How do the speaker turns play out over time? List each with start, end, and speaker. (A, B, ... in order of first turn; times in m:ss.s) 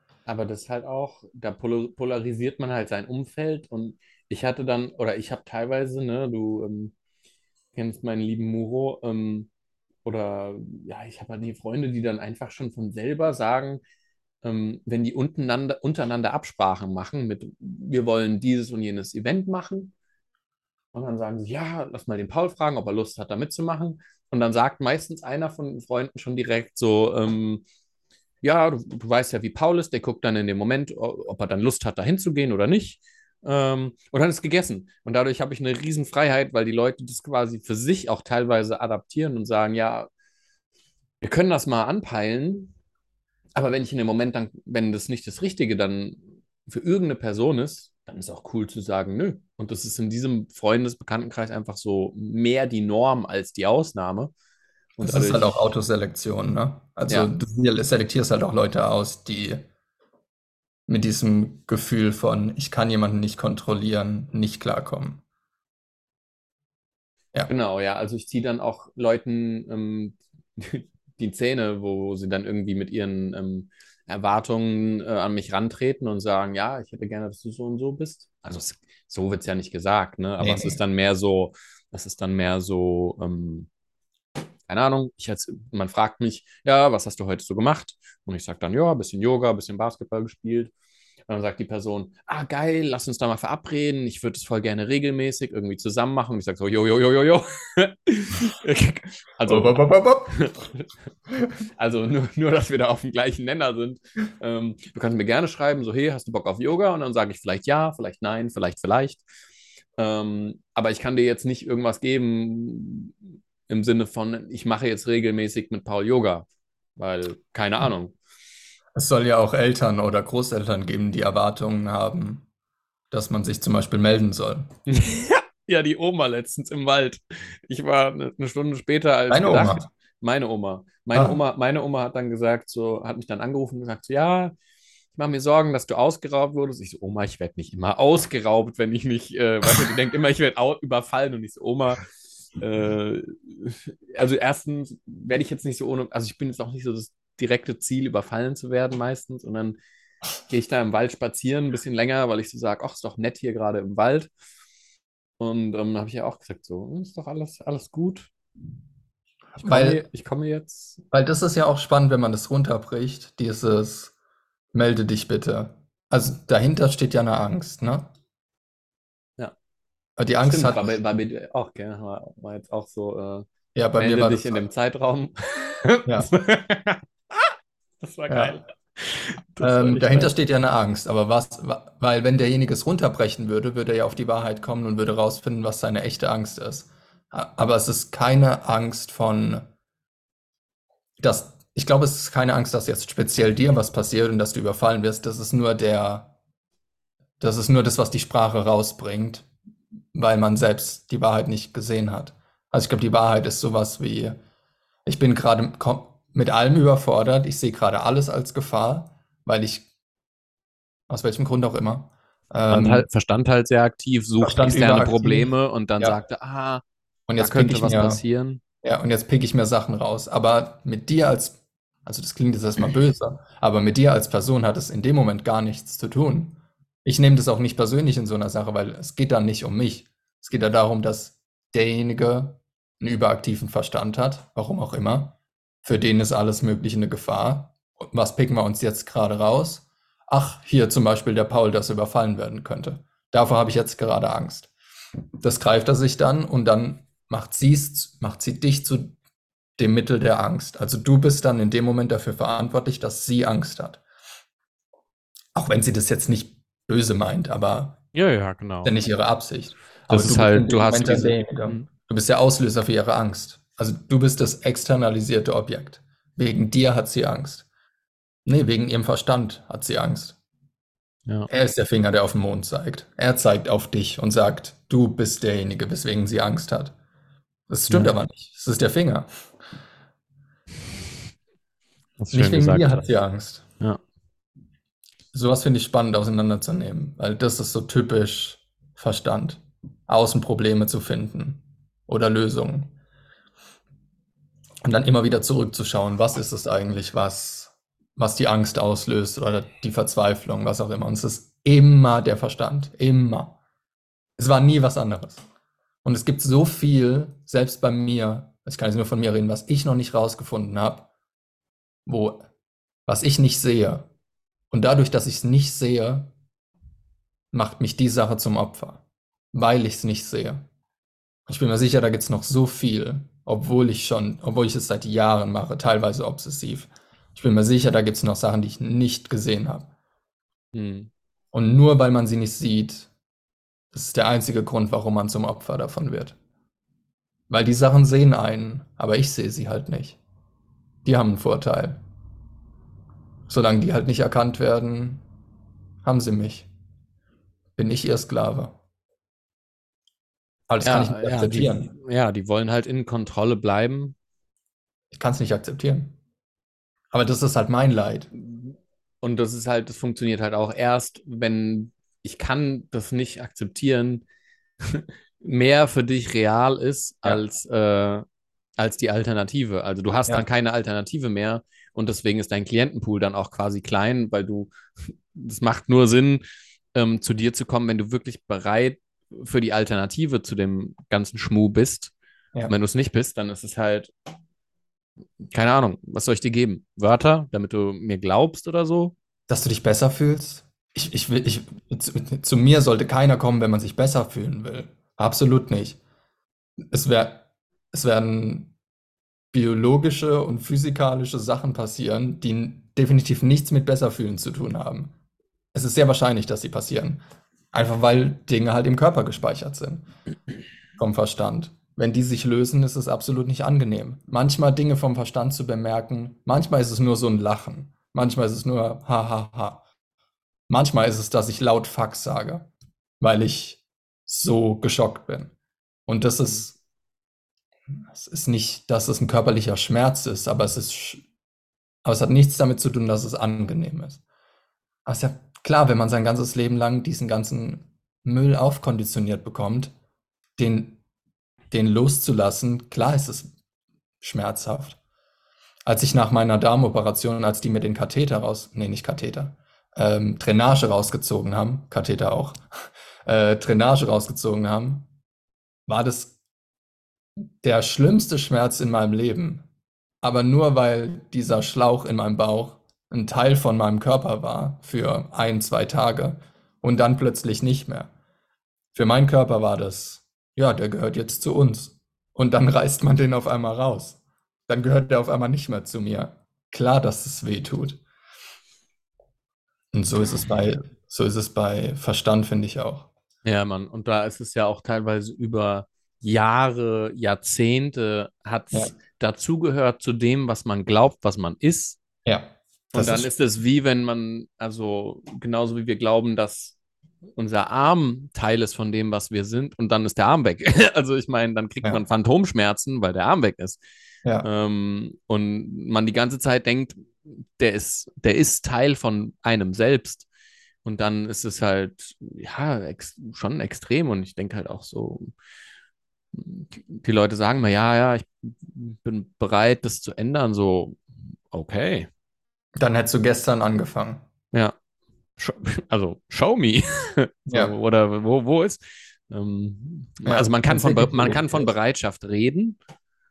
0:00.3-0:06.9 A
0:07.8-0:09.5 A
0:10.0-0:13.8 A
0:14.4-0:19.9 A
0:20.9-0:27.6 A
0:28.4-0:40.1 A
0:41.2-0:42.7 A
0:43.6-0:54.3 A
0:55.0-0:55.7 A
0:55.0-0:59.7 B
1:00.9-1:05.2 B
1:07.5-1:23.7 A
1:20.4-1:20.8 B
1:24.7-1:30.7 A
1:31.3-1:39.8 A
1:39.5-1:40.4 B
1:40.3-1:40.9 A
1:41.8-1:49.2 A
1:50.0-1:56.5 A
1:57.0-1:58.2 A
1:59.0-2:02.5 B
2:03.1-2:04.7 B
2:04.9-2:14.6 A
2:09.3-2:09.9 B
2:11.1-2:11.4 B
2:15.1-2:29.8 A
2:30.5-2:34.3 A
2:35.4-2:38.3 A
2:39.6-2:40.0 B
2:39.6-2:41.0 A
2:41.1-2:44.1 B
2:44.7-2:48.1 B
2:50.2-2:51.0 B
2:50.4-2:53.5 A
2:53.8-2:54.6 B
2:54.0-3:00.3 A
2:56.1-2:56.3 B
2:58.3-2:58.6 B
2:59.6-3:09.7 B
3:11.2-3:16.3 B
3:17.4-3:19.5 B
3:20.1-3:24.4 B
3:25.1-3:29.9 B
3:31.1-3:33.1 B
3:32.7-3:36.8 A
3:34.4-3:36.2 B
3:37.3-3:38.2 B
3:37.4-3:38.6 A
3:38.8-4:04.7 B
4:05.4-4:09.2 B
4:09.8-4:14.0 B
4:15.6-4:18.0 B
4:18.1-4:19.0 A
4:18.8-4:27.7 B
4:20.1-4:21.9 A
4:28.5-4:30.4 B
4:31.5-4:37.0 B
4:37.7-4:39.4 B
4:42.2-4:43.1 A
4:42.3-4:43.7 B
4:45.3-4:52.9 B
4:54.8-5:03.6 B
5:04.4-5:05.4 B
5:06.0-5:11.1 B
5:12.1-5:12.5 B
5:13.1-5:14.1 B
5:14.7-5:16.3 B
5:17.5-5:20.7 B
5:21.5-5:29.9 B
5:30.7-5:31.1 A
5:31.5-5:33.1 B
5:33.9-5:36.4 B
5:37.5-5:40.2 B
5:41.0-5:42.0 B
5:43.5-5:45.2 B
5:46.0-5:46.7 B
5:47.8-5:48.8 B
5:50.7-5:51.9 B
5:50.8-5:54.2 A
5:55.1-5:56.2 B
5:57.1-5:58.3 B
5:58.4-6:04.2 A
6:04.8-6:08.2 A
6:08.8-6:16.4 A
6:16.9-6:22.1 A
6:22.7-6:24.1 A
6:25.5-6:29.1 A
6:29.5-6:36.0 B
6:36.9-6:38.7 B
6:39.5-6:45.1 B
6:45.7-6:47.2 B
6:47.7-6:50.1 B
6:51.0-6:59.9 B
7:00.7-7:02.7 B
7:03.2-7:05.5 B
7:06.1-7:06.8 B
7:08.1-7:11.2 B
7:12.0-7:14.2 B
7:15.1-7:19.9 B
7:20.6-7:21.0 B
7:21.7-7:23.5 B
7:24.2-7:25.0 B
7:25.9-7:32.6 B
7:33.3-7:35.1 B
7:35.9-7:36.4 B
7:37.6-7:39.7 B
7:40.2-7:48.1 B
7:48.9-7:58.0 B
7:59.9-8:03.1 B
8:03.4-8:12.0 A
8:12.3-8:13.3 B
8:12.9-8:16.8 A
8:17.4-8:23.8 A
8:24.4-8:30.3 A
8:30.8-8:35.3 A
8:36.3-8:41.0 A
8:41.5-8:42.1 A
8:42.8-8:44.2 B
8:45.4-8:52.8 A
8:50.2-8:51.7 B